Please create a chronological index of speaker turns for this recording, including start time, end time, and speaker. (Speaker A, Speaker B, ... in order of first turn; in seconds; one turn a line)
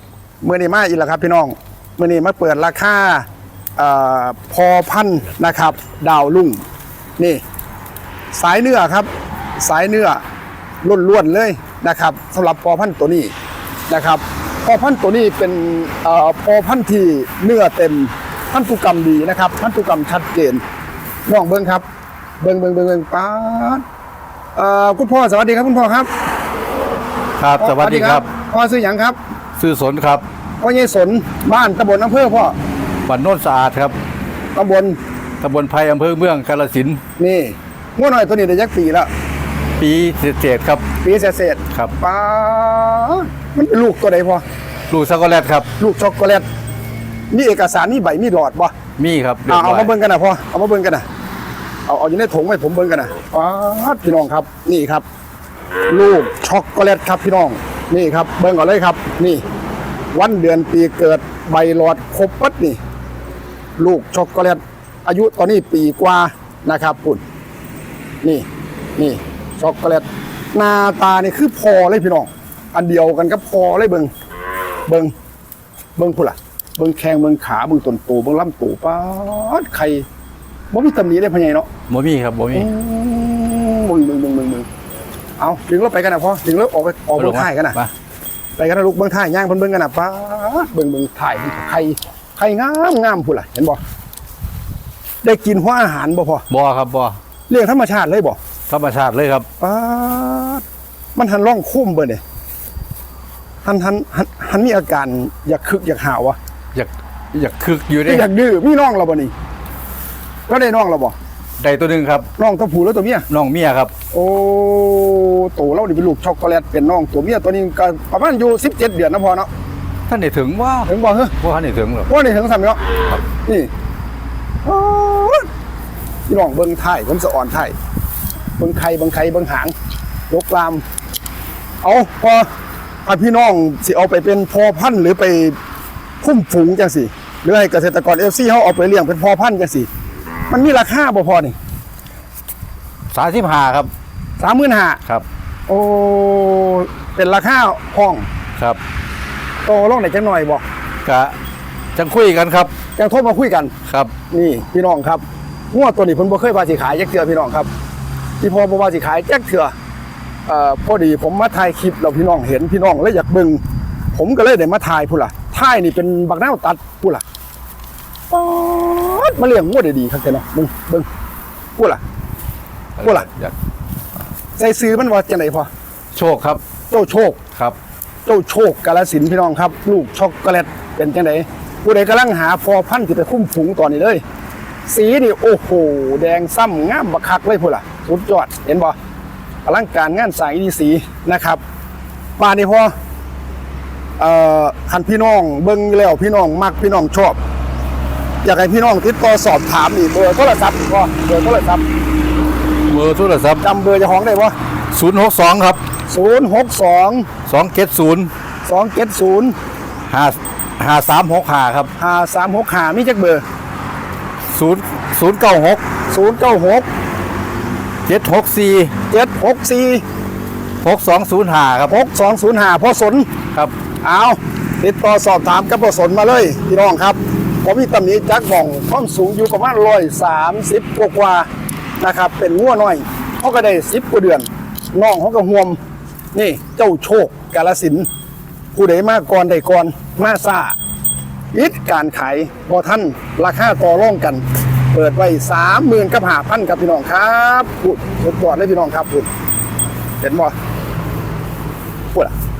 Speaker A: 0.4-6.6
Speaker A: 8.3-10.2
Speaker A: 10.8-13.3
Speaker A: 13.9-20.6
Speaker A: 21.3-21.8
Speaker A: 22.4-23.8
Speaker A: 24.6-26.1
Speaker B: 27.4-28.2
Speaker A: 27.6-29.1
Speaker B: 29.6-30.2
Speaker A: 30.6-32.5
Speaker B: 33.0-34.0
Speaker A: 34.5-35.0
Speaker B: 35.4-37.0
Speaker A: 37.2-39.1
Speaker B: 39.8-40.8
Speaker A: 41.0-44.4
Speaker B: 44.9-45.7
Speaker A: 45.8-46.5
Speaker A: 47.3-48.7
Speaker B: 49.0-49.9
Speaker A: 49.5-51.0
Speaker A: 51.9-55.0
Speaker A: 55.9-59.4
Speaker A: 60.1-62.8
Speaker A: 63.8-67.2
Speaker A: 69.0-74.1
Speaker A: 74.9-75.1
Speaker A: 76.0-80.1
Speaker A: 80.7-81.7
Speaker B: 81.9-82.7
Speaker A: 82.5-84.7
Speaker A: 85.4-87.8
Speaker B: 87.2-87.9
Speaker A: 88.6-93.8
Speaker A: 95.2-96.5
Speaker B: 96.5-97.2
Speaker A: 97.5-98.4
Speaker B: 98.7-99.5
Speaker A: 99.6-100.6
Speaker A: 101.2-102.2
Speaker A: 103.6-106.4
Speaker B: 106.7-108.3
Speaker A: 108.0-109.3
Speaker A: 110.5-111.1
Speaker B: 111.6-112.3
Speaker A: 112.4-113.3
Speaker B: 113.3-113.9
Speaker A: 114.1-119.5
Speaker B: 120.1-122.1
Speaker A: 120.8-121.3
Speaker A: 122.1-122.8
Speaker A: 123.4-123.7
Speaker A: 124.6-125.5
Speaker A: 126.3-127.7
Speaker A: 128.6-129.7
Speaker A: 130.3-130.8
Speaker A: 131.8-132.5
Speaker A: 133.0-135.6
Speaker A: 136.2-139.9
Speaker A: 140.5-141.6
Speaker B: 143.1-143.9
Speaker A: 144.4-145.0
Speaker A: 145.7-148.3
Speaker A: 149.6-150.6
Speaker B: 151.0-151.3
Speaker B: 151.9-152.7
Speaker A: 152.9-153.7
Speaker B: 153.9-154.1
Speaker A: 154.3-157.7
Speaker A: 158.4-159.7
Speaker A: 160.5-163.6
Speaker A: 164.1-167.2
Speaker A: 168.3-171.1
Speaker B: 173.0-173.5
Speaker A: 174.6-175.7
Speaker B: 176.1-176.6
Speaker A: 176.9-177.4
Speaker A: 178.2-184.2
Speaker A: 184.9-188.9
Speaker A: 189.6-191.6
Speaker A: 192.4-192.9
Speaker A: 194.2-197.4
Speaker A: 198.4-201.8
Speaker B: 202.9-203.6
Speaker A: 203.6-204.5
Speaker B: 204.9-205.8
Speaker A: 206.1-207.3
Speaker B: 207.4-208.3
Speaker A: 208.7-209.6
Speaker B: 210.1-211.9
Speaker A: 212.0-213.4
Speaker B: 214.5-215.8
Speaker A: 216.1-216.9
Speaker B: 218.1-218.9
Speaker A: 219.1-220.0
Speaker B: 220.8-221.9
Speaker A: 221.9-223.3
Speaker A: 224.0-231.5
Speaker A: 232.0-235.8
Speaker A: 236.3-238.1
Speaker A: 238.7-240.7
Speaker A: 241.5-249.3
Speaker A: 250.2-250.5